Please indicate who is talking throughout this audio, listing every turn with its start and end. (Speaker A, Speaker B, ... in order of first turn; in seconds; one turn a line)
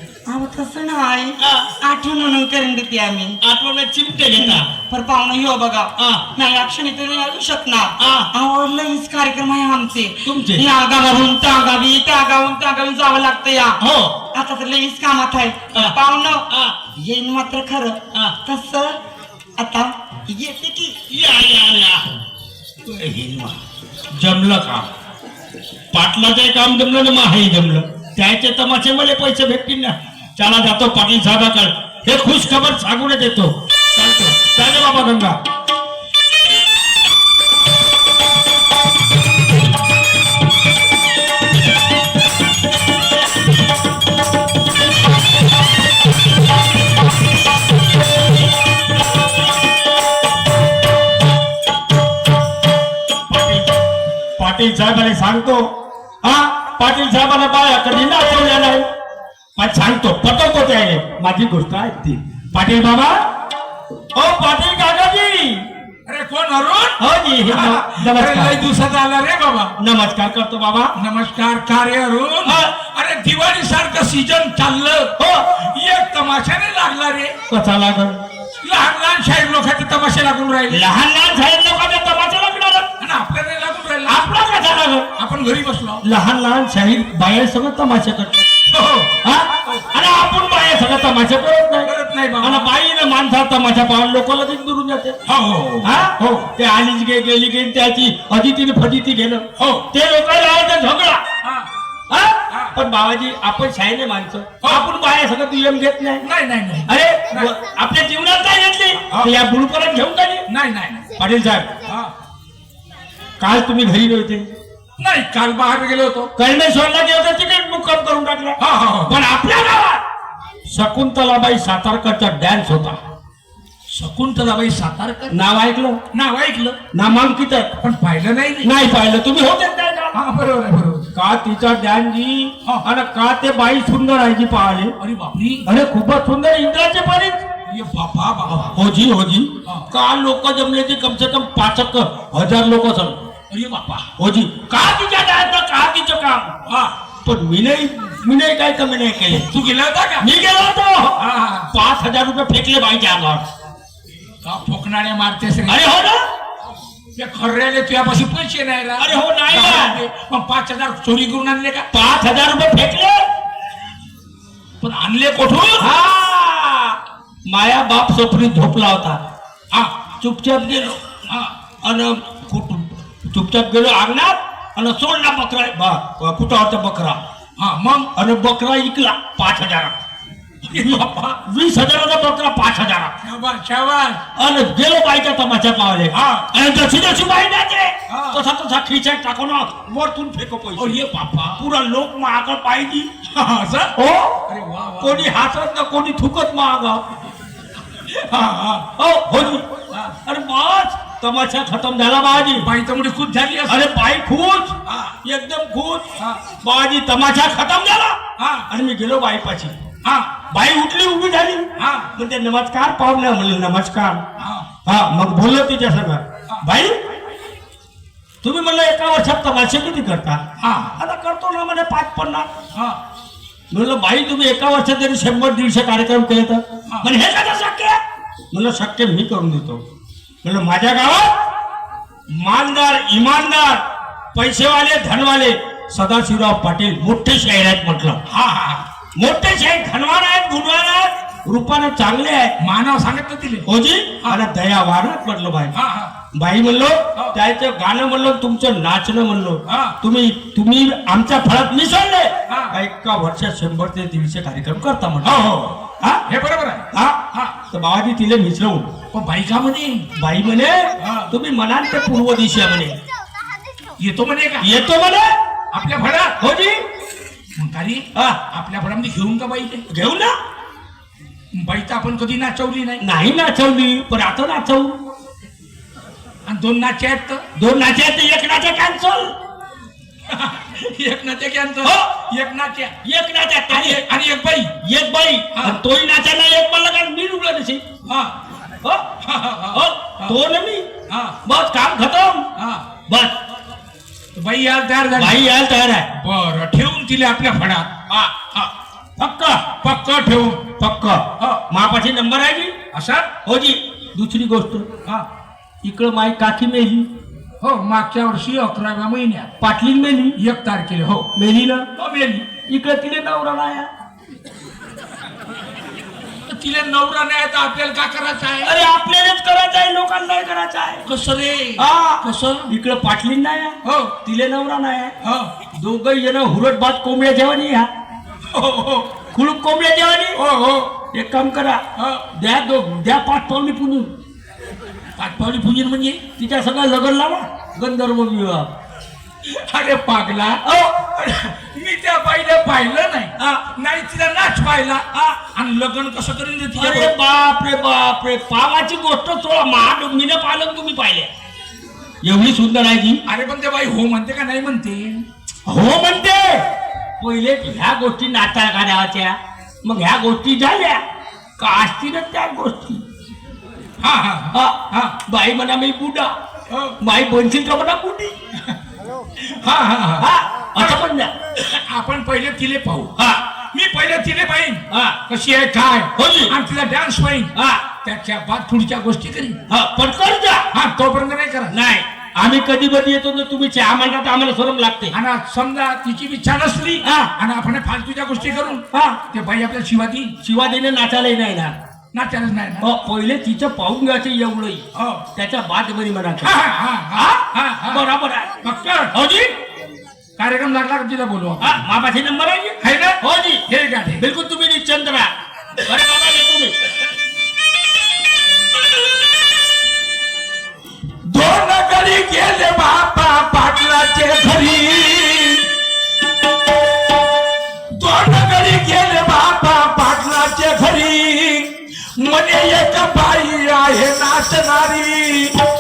Speaker A: 0.3-3.4
Speaker B: 1.4-1.7
Speaker B: 3.4-4.7
Speaker A: 4.4-13.8
Speaker B: 6.0-6.2
Speaker B: 8.0-8.3
Speaker B: 10.2-10.7
Speaker B: 13.8-14.1
Speaker A: 14.3-16.4
Speaker B: 16.5-16.8
Speaker A: 16.9-19.0
Speaker A: 19.6-21.1
Speaker B: 21.1-22.1
Speaker B: 22.9-23.6
Speaker B: 24.1-24.9
Speaker B: 25.9-33.5
Speaker B: 34.2-35.4
Speaker B: 53.3-53.8
Speaker B: 54.4-55.7
Speaker B: 56.2-58.9
Speaker B: 59.6-63.2
Speaker B: 64.1-65.7
Speaker C: 66.1-69.7
Speaker B: 67.0-68.6
Speaker B: 69.8-70.9
Speaker C: 71.0-77.4
Speaker B: 72.5-72.7
Speaker B: 75.2-75.5
Speaker B: 77.5-78.2
Speaker C: 78.6-80.8
Speaker B: 80.7-82.9
Speaker C: 83.0-84.3
Speaker B: 84.1-85.1
Speaker C: 85.2-86.0
Speaker B: 86.0-88.5
Speaker C: 88.7-89.1
Speaker B: 89.2-91.9
Speaker C: 91.9-92.7
Speaker B: 92.4-95.2
Speaker C: 95.3-96.5
Speaker B: 95.8-101.2
Speaker C: 99.6-99.9
Speaker C: 101.4-101.7
Speaker B: 102.1-106.2
Speaker C: 102.5-102.8
Speaker C: 104.6-104.9
Speaker C: 106.2-107.5
Speaker B: 106.9-110.5
Speaker C: 110.5-111.1
Speaker B: 111.2-111.8
Speaker C: 111.9-112.1
Speaker B: 113.4-114.5
Speaker C: 115.0-116.3
Speaker B: 116.4-120.0
Speaker C: 118.6-119.2
Speaker B: 120.7-123.0
Speaker C: 123.9-125.4
Speaker B: 125.3-126.0
Speaker C: 126.1-126.8
Speaker B: 126.9-127.7
Speaker C: 127.8-128.7
Speaker B: 128.6-130.2
Speaker C: 130.1-131.1
Speaker B: 131.2-134.9
Speaker C: 135.0-135.7
Speaker B: 135.7-137.4
Speaker C: 137.7-138.8
Speaker B: 138.6-143.3
Speaker C: 143.5-144.1
Speaker B: 144.2-146.5
Speaker C: 146.7-146.9
Speaker B: 147.2-149.5
Speaker C: 149.3-150.3
Speaker B: 150.2-151.2
Speaker C: 151.2-151.7
Speaker B: 151.7-153.5
Speaker C: 154.4-155.9
Speaker B: 155.7-156.3
Speaker C: 157.2-161.9
Speaker B: 159.0-160.0
Speaker B: 161.9-163.3
Speaker C: 164.8-165.9
Speaker B: 165.8-169.2
Speaker B: 170.2-171.0
Speaker C: 171.3-171.5
Speaker B: 171.8-177.2
Speaker C: 177.6-178.1
Speaker B: 178.2-179.9
Speaker C: 180.7-181.4
Speaker B: 180.7-183.2
Speaker C: 183.2-184.2
Speaker B: 184.4-193.1
Speaker C: 186.1-186.5
Speaker C: 188.1-188.4
Speaker C: 190.8-191.7
Speaker C: 193.3-193.9
Speaker B: 194.0-194.3
Speaker C: 194.5-195.3
Speaker B: 195.0-197.0
Speaker C: 198.1-200.2
Speaker B: 199.0-199.7
Speaker B: 200.2-202.7
Speaker C: 202.4-203.9
Speaker B: 203.7-206.1
Speaker C: 204.9-205.2
Speaker B: 206.6-208.2
Speaker C: 208.4-208.7
Speaker B: 208.7-209.8
Speaker C: 210.0-210.3
Speaker B: 210.5-214.2
Speaker C: 211.8-212.1
Speaker C: 214.4-214.7
Speaker B: 214.8-217.0
Speaker B: 218.4-220.4
Speaker C: 220.6-220.9
Speaker B: 221.0-222.5
Speaker B: 223.7-228.0
Speaker B: 228.5-229.8
Speaker B: 230.4-231.3
Speaker B: 232.3-233.8
Speaker B: 234.3-238.2
Speaker C: 238.3-238.8
Speaker B: 239.2-242.5
Speaker C: 242.6-243.7
Speaker B: 243.7-245.7
Speaker C: 245.7-246.1
Speaker B: 246.3-255.5
Speaker C: 249.7-250.0
Speaker C: 252.5-252.8
Speaker C: 255.2-257.6
Speaker B: 256.9-257.2
Speaker B: 257.7-258.9
Speaker C: 259.1-260.1
Speaker B: 260.2-263.0
Speaker C: 261.0-261.3
Speaker C: 264.0-264.9
Speaker B: 264.6-265.4
Speaker C: 265.7-266.4
Speaker B: 266.4-266.8
Speaker C: 267.6-269.9
Speaker B: 269.9-270.4
Speaker C: 271.5-273.0
Speaker B: 273.0-274.9
Speaker C: 276.5-277.4
Speaker B: 277.6-279.4
Speaker C: 280.3-283.0
Speaker B: 281.8-282.1
Speaker B: 283.0-284.0
Speaker C: 283.7-284.8
Speaker B: 284.8-287.8
Speaker C: 288.1-288.4
Speaker C: 289.2-290.4
Speaker B: 289.7-290.9
Speaker C: 291.1-291.4
Speaker B: 291.4-292.5
Speaker C: 292.6-292.8
Speaker B: 293.1-293.3
Speaker C: 294.4-295.4
Speaker B: 295.2-296.1
Speaker C: 296.2-297.9
Speaker B: 299.2-299.7
Speaker C: 299.8-300.7
Speaker B: 300.8-302.7
Speaker C: 302.9-303.3
Speaker B: 303.4-304.9
Speaker B: 305.8-307.1
Speaker C: 307.6-309.5
Speaker B: 309.6-310.4
Speaker C: 310.4-311.3
Speaker B: 311.4-311.9
Speaker C: 312.0-312.5
Speaker B: 312.5-313.9
Speaker C: 316.5-318.9
Speaker B: 318.6-321.0
Speaker C: 321.1-322.7
Speaker B: 321.8-325.1
Speaker C: 323.8-324.1
Speaker C: 325.2-325.5
Speaker B: 325.7-327.9
Speaker C: 328.5-329.1
Speaker B: 329.3-330.4
Speaker C: 330.4-330.9
Speaker B: 331.1-331.8
Speaker C: 332.0-332.3
Speaker B: 332.4-334.1
Speaker C: 335.2-336.2
Speaker B: 336.4-338.7
Speaker C: 339.5-340.6
Speaker B: 340.6-340.9
Speaker C: 341.1-347.1
Speaker B: 346.8-351.3
Speaker B: 352.2-353.2
Speaker C: 353.3-355.2
Speaker B: 355.7-356.6
Speaker B: 357.2-361.0
Speaker B: 361.6-363.0
Speaker C: 364.0-365.2
Speaker B: 364.5-366.4
Speaker C: 366.7-367.0
Speaker B: 367.0-368.3
Speaker C: 369.5-370.3
Speaker B: 370.2-371.3
Speaker C: 370.8-371.1
Speaker C: 371.7-373.1
Speaker C: 373.7-379.6
Speaker B: 374.9-375.2
Speaker B: 376.2-376.5
Speaker B: 377.6-377.8
Speaker B: 379.7-380.7
Speaker C: 380.7-381.8
Speaker B: 381.7-385.1
Speaker C: 385.1-390.4
Speaker B: 387.0-387.3
Speaker B: 388.9-389.2
Speaker B: 390.4-391.8
Speaker C: 392.1-392.9
Speaker B: 392.8-396.5
Speaker C: 394.9-395.3
Speaker C: 396.4-398.0
Speaker B: 397.2-398.6
Speaker C: 398.6-399.1
Speaker B: 399.1-399.6
Speaker C: 400.4-401.8
Speaker B: 401.6-403.6
Speaker C: 402.8-404.2
Speaker B: 404.2-405.3
Speaker B: 405.8-406.8
Speaker C: 411.3-415.6
Speaker C: 417.9-425.6